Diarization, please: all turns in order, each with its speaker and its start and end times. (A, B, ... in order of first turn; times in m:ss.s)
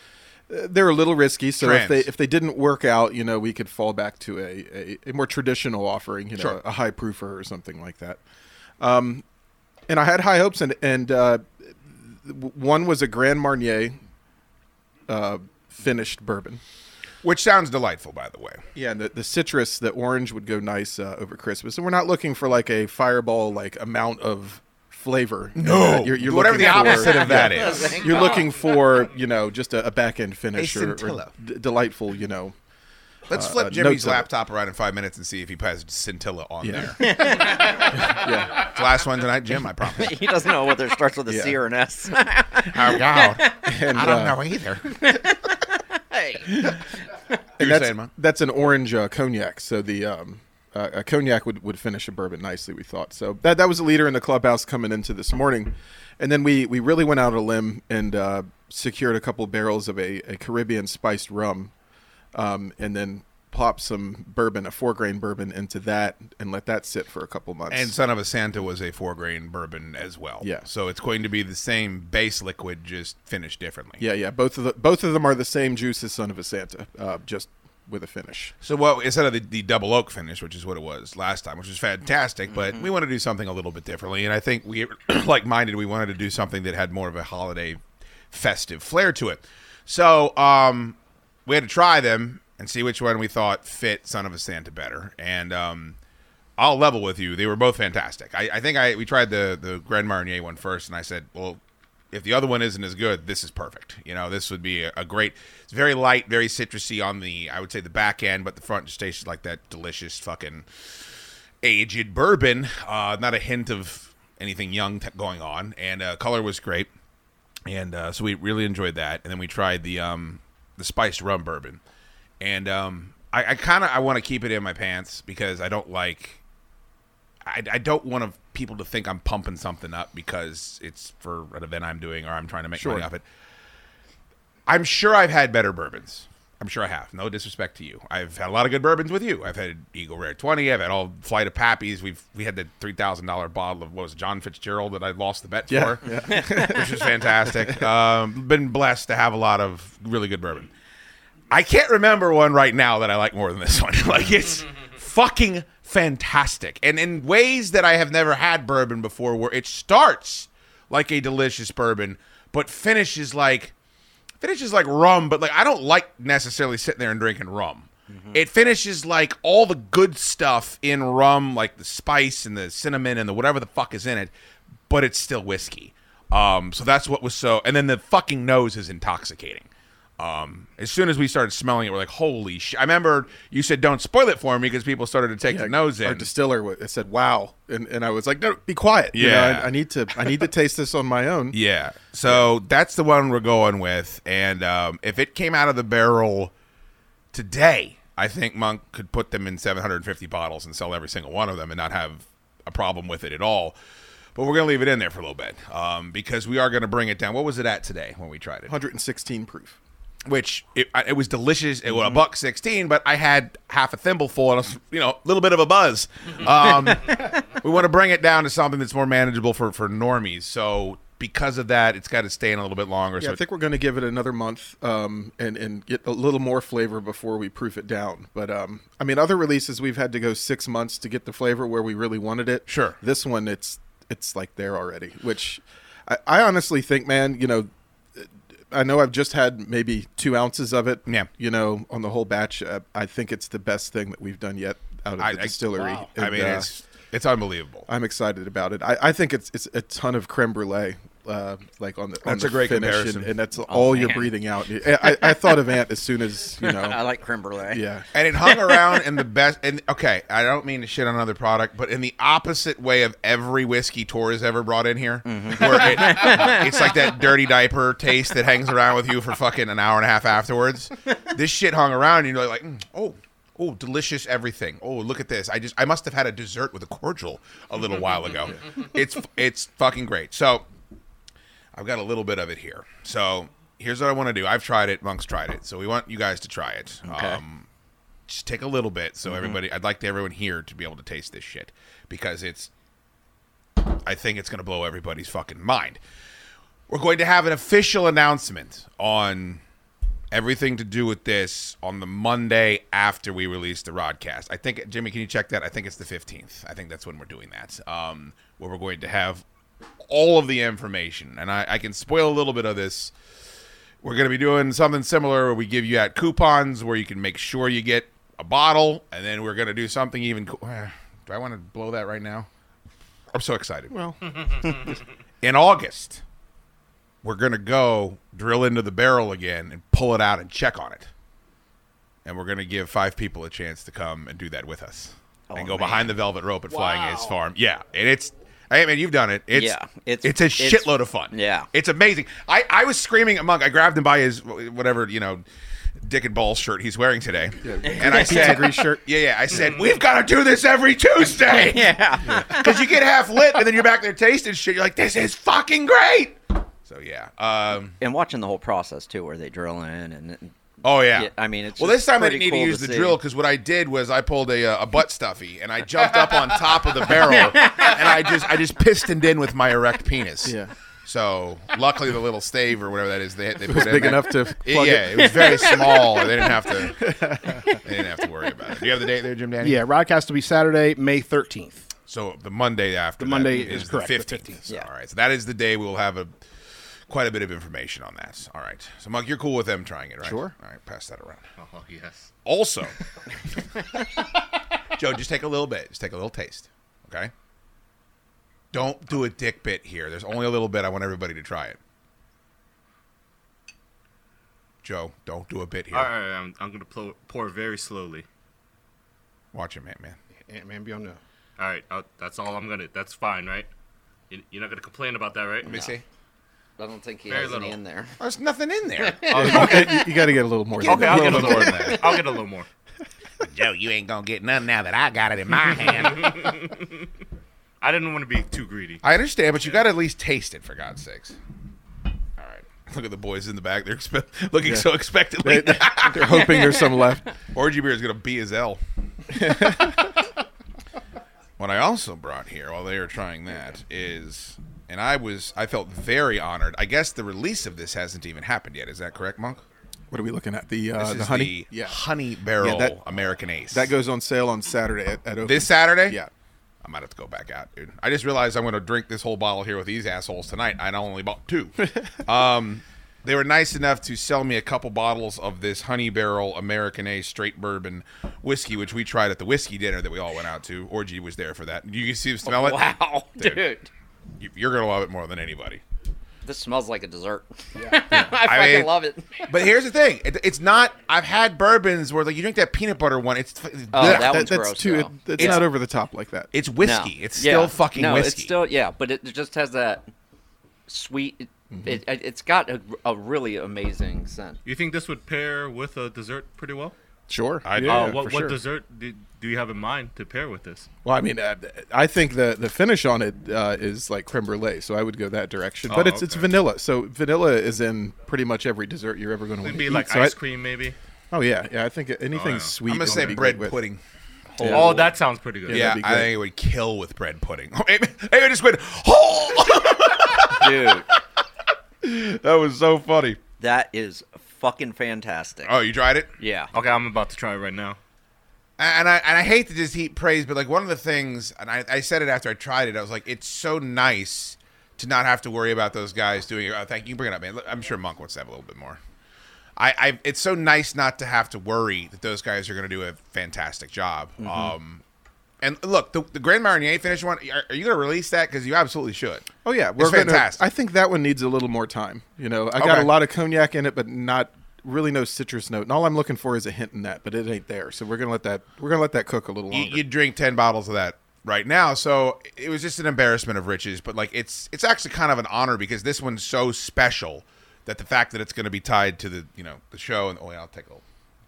0:00.5-0:08.2 A
0:01.6-0:02.1 B
0:08.8-0:09.2 A
0:09.9-0:14.0 A
0:15.1-0:16.6 A
0:17.2-0:18.6 B
0:18.8-0:32.5 A
0:25.6-0:27.9 B
0:26.8-0:28.5 C
0:30.6-0:31.3 B
0:33.3-0:37.4 B
0:33.3-0:34.3 A
0:36.6-0:38.6 A
0:37.0-0:37.9 C
0:38.6-0:40.1 B
0:39.9-0:43.6 C
0:41.3-0:41.6 A
0:42.7-0:44.8 B
0:43.7-0:44.4 A
0:45.0-0:46.8 C
0:47.6-0:48.1 B
0:47.6-1:01.7 A
1:02.3-1:07.9 A
1:07.7-1:14.0 B
1:10.4-1:10.7 A
1:14.0-1:18.5 A
1:18.6-1:27.8 B
1:22.5-1:22.8 C
1:28.3-1:36.0 B
1:36.6-1:41.6 B
1:42.1-1:50.7 B
1:51.6-1:56.9 B
1:57.7-2:01.8 B
2:02.4-2:06.4 B
2:07.5-2:13.2 B
2:12.8-2:13.1 A
2:14.7-2:30.7 B
2:25.7-2:27.8 A
2:31.5-2:43.7 B
2:44.4-2:54.3 B
2:48.1-2:48.4 C
2:54.9-2:59.7 B
3:00.2-3:06.3 B
3:05.5-3:11.6 A
3:09.1-3:09.7 B
3:11.5-3:16.5 B
3:17.3-3:23.8 B
3:24.4-3:28.8 B
3:28.7-3:29.8 A
3:30.3-3:43.4 B
3:43.2-4:06.7 A
3:52.7-3:53.0 B
4:05.2-4:07.9 B
4:07.9-4:17.0 A
4:12.2-4:13.3 B
4:13.7-4:14.3 C
4:16.6-4:17.8 C
4:17.7-4:18.1 A
4:18.1-4:40.7 B
4:25.2-4:27.0 C
4:41.8-4:47.7 B
4:47.1-4:47.4 C
4:48.3-4:52.7 B
4:49.3-4:49.6 C
4:53.9-4:56.0 B
4:56.9-4:59.6 B
5:00.3-5:09.4 B
5:10.1-5:13.1 B
5:14.0-5:22.5 B
5:23.3-5:24.0 B
5:23.9-5:24.9 A
5:25.4-5:26.2 B
5:27.2-5:31.1 B
5:32.2-5:45.4 B
5:35.5-5:36.2 C
5:39.5-5:41.7 C
5:46.0-5:58.0 B
5:47.6-5:49.0 A
5:47.8-5:48.8 C
5:51.5-5:52.8 C
5:58.0-6:00.5 C
6:00.8-6:17.0 B
6:01.0-6:03.2 C
6:07.1-6:08.3 C
6:10.4-6:10.7 A
6:13.7-6:15.7 A
6:15.4-6:15.9 C
6:17.0-6:17.6 A
6:17.8-6:19.8 B
6:19.6-6:21.9 D
6:22.1-6:26.4 B
6:23.2-6:24.6 D
6:27.1-6:31.5 B
6:30.3-6:30.5 D
6:31.6-6:32.3 E
6:32.4-6:32.9 B
6:35.0-6:37.3 B
6:38.7-6:41.8 B
6:44.8-6:46.1 B
6:45.9-6:48.2 E
6:49.5-6:50.2 B
6:50.5-6:51.2 D
6:51.6-6:53.7 E
6:54.3-6:55.9 E
6:55.6-6:56.0 B
6:56.8-6:58.2 C
6:57.3-6:57.8 E
6:58.2-6:59.4 B
6:59.0-7:00.1 C
6:59.3-7:00.1 E
6:59.3-7:02.2 A
7:00.8-7:02.7 E
7:00.8-7:02.0 C
7:01.0-7:01.9 B
7:03.5-7:06.6 B
7:06.2-7:06.5 E
7:07.8-7:09.0 E
7:09.0-7:11.4 B
7:12.4-7:16.6 B
7:14.6-7:14.9 A
7:15.4-7:17.3 A
7:17.5-7:18.8 B
7:19.4-7:20.1 A
7:19.4-7:19.7 B
7:21.6-7:29.6 B
7:30.1-7:32.0 A
7:31.0-7:33.9 B
7:32.6-7:33.0 A
7:33.7-7:36.3 A
7:35.4-7:36.2 B
7:36.8-7:53.6 B
7:52.5-7:53.9 C
7:54.4-7:55.8 B
7:56.4-7:59.5 C
7:58.1-7:58.9 B
7:59.5-8:04.3 B
8:03.9-8:05.7 C
8:04.0-8:06.5 A
8:05.4-8:05.7 B
8:06.5-8:08.5 B
8:06.8-8:10.1 C
8:10.9-8:14.6 C
8:11.7-8:12.0 A
8:14.6-8:17.0 E
8:17.3-8:18.2 A
8:17.6-8:18.6 B
8:17.8-8:20.9 E
8:21.0-8:30.4 A
8:25.9-8:26.6 E
8:29.6-8:31.0 E
8:31.3-8:33.8 A
8:32.3-8:33.5 E
8:32.9-8:34.0 B
8:34.6-8:35.1 B
8:34.6-8:36.0 E
8:34.6-8:35.1 A
8:35.7-8:36.3 A
8:35.7-8:40.9 B
8:40.5-8:41.1 C
8:42.0-8:43.4 B
8:43.6-8:45.7 C
8:45.6-8:46.3 B
8:46.4-8:46.7 C
8:46.7-8:48.0 E
8:48.8-8:59.0 B
8:59.8-9:05.0 B
9:05.6-9:10.6 B
9:09.6-9:20.0 A
9:12.8-9:13.1 B
9:19.7-9:31.0 B